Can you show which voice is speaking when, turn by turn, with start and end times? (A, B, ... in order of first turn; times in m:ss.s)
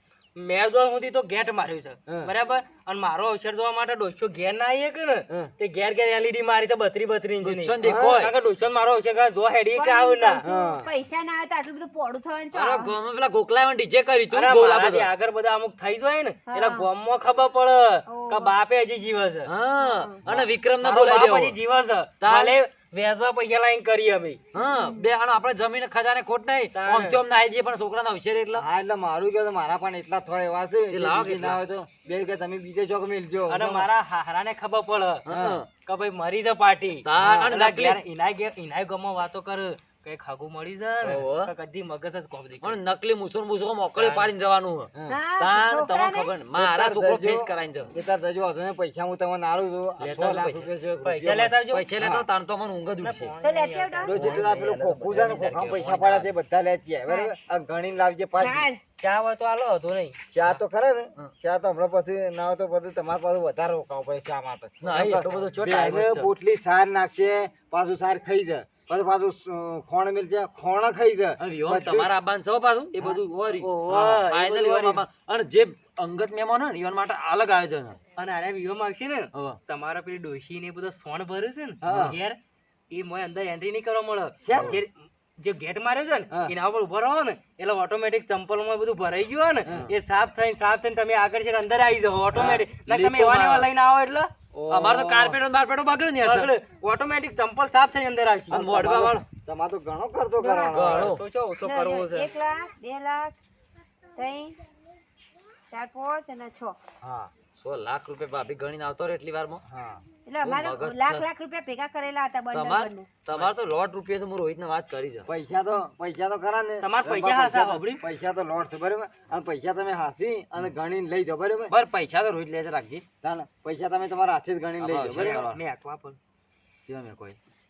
0:00.4-0:10.4 A
0:02.1-0:02.3 B
0:07.4-0:08.3 C
0:07.8-0:08.2 B
0:09.8-0:12.9 D
0:10.4-0:10.9 B
0:12.5-0:15.1 C
0:14.3-0:19.5 A
0:16.5-0:16.9 D
0:18.1-0:18.6 D
0:19.5-0:21.6 C
0:19.8-0:20.2 D
0:20.8-0:24.4 A
0:22.2-0:22.6 C
0:24.5-0:28.6 C
0:24.6-0:25.1 D
0:26.7-0:27.2 A
0:28.6-0:33.9 B
0:30.9-0:31.6 C
0:33.5-0:35.2 A
0:35.2-0:35.7 C
0:35.3-0:35.6 B
0:35.8-0:42.8 A
0:37.0-0:38.0 C
0:37.2-0:37.5 B
0:41.0-0:41.5 C
0:42.6-0:47.9 C
0:44.0-0:44.3 A
0:45.1-0:46.3 D
0:46.6-0:52.3 B
0:50.0-0:50.7 C
0:51.0-0:51.9 A
0:51.7-0:53.3 C
0:53.0-0:54.5 A
0:53.4-0:54.2 D
0:54.1-0:58.7 B
0:54.1-0:56.3 C
0:58.4-0:58.8 D
0:59.0-1:00.2 A
1:00.3-1:12.1 B
1:04.8-1:06.3 C
1:11.4-1:13.7 C
1:13.6-1:15.0 A
1:13.9-1:14.3 B
1:14.3-1:18.0 C
1:18.2-1:22.4 A
1:21.8-1:22.2 B
1:22.9-1:34.3 A
1:24.4-1:24.8 B
1:24.5-1:24.8 C
1:29.7-1:29.9 B
1:32.4-1:32.6 B
1:32.4-1:33.7 C
1:34.5-1:35.4 B
1:34.7-1:36.5 C
1:36.2-1:38.6 A
1:38.5-1:41.1 B
1:38.5-1:39.2 C
1:40.4-1:40.7 D
1:40.7-1:41.2 C
1:40.8-1:42.3 A
1:41.6-1:43.3 D
1:44.2-1:44.6 D
1:45.7-1:46.8 D
1:47.0-1:47.3 B
1:47.6-1:49.6 C
1:49.7-1:50.0 B
1:50.3-1:53.1 D
1:50.4-1:51.3 C
1:52.5-1:55.3 C
1:55.3-2:01.7 B
1:56.8-1:58.0 A
2:01.7-2:03.0 C
2:03.2-2:05.4 B
2:04.8-2:05.6 C
2:05.1-2:06.2 A
2:06.9-2:07.4 C